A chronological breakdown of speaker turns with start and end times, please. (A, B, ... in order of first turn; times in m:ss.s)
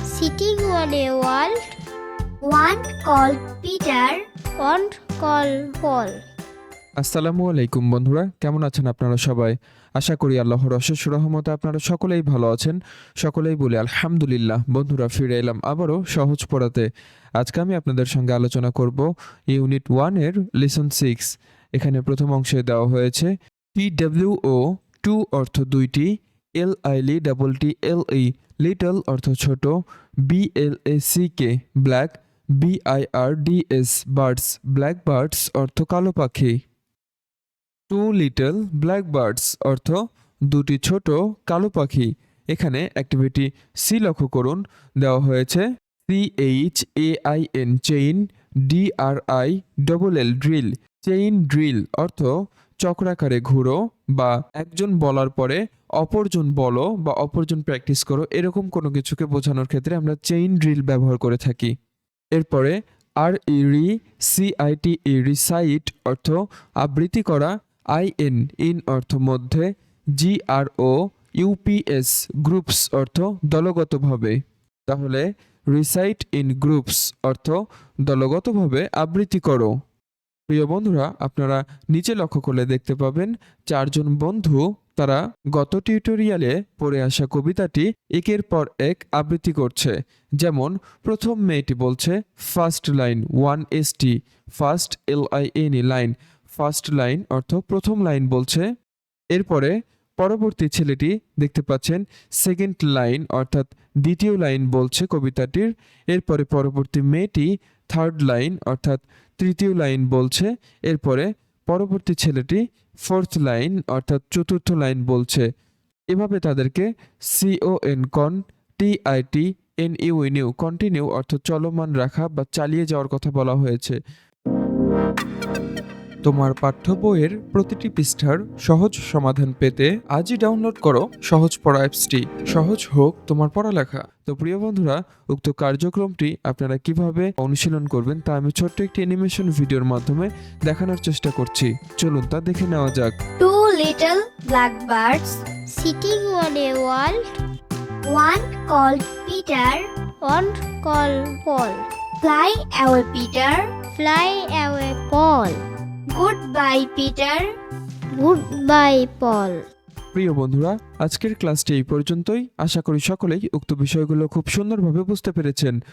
0:00.1-0:01.5 A
0:02.4-0:04.2 B
0:04.6-0:06.1 A
0:07.0-0:16.9 C
0:17.4-0:36.6 C
0:37.9-0:40.0 C
0:40.5-0:52.3 C
0:52.8-1:01.7 C
1:02.3-1:09.6 C
1:10.2-1:19.7 C
1:20.5-1:38.6 C
1:39.3-1:55.5 C
1:56.1-2:04.0 C
2:06.2-2:23.1 C
2:23.4-2:25.4 B
2:25.8-2:27.2 A
2:28.1-2:29.8 B
2:30.2-2:31.8 A
2:32.2-2:33.7 B
2:34.0-2:35.6 A
2:36.1-2:37.5 B
2:38.1-2:39.6 A
2:40.1-2:45.8 C